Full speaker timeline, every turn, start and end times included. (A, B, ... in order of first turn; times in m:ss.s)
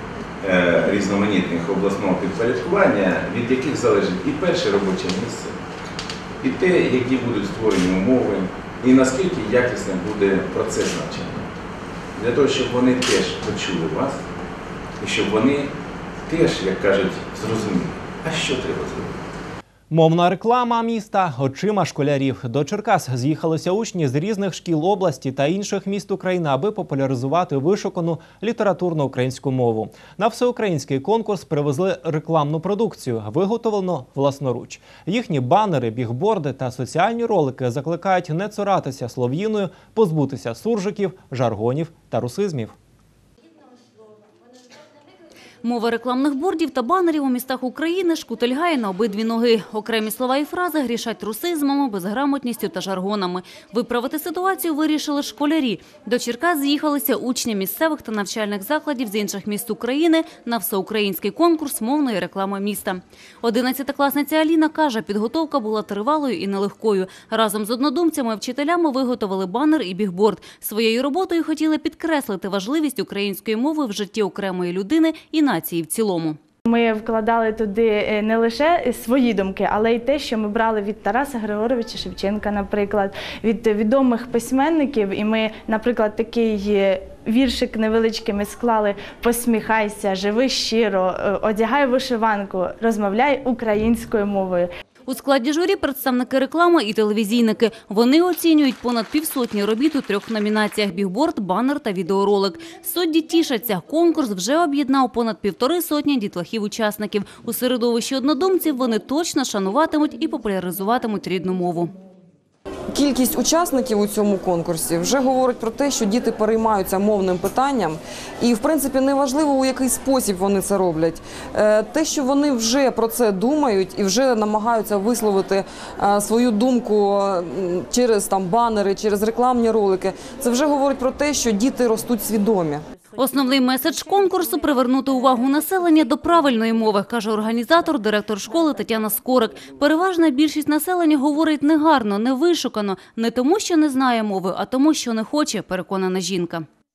0:00.4-0:05.6 A
0:06.4-0:11.5 A
0:12.2-0:14.2 A
0:15.0-0:15.7 A
0:16.3-0:19.2 A
0:19.9-0:42.7 B
0:45.6-1:16.4 C
1:16.7-1:34.7 D
1:35.1-1:51.9 C
1:52.9-2:12.8 E
2:13.2-2:26.7 C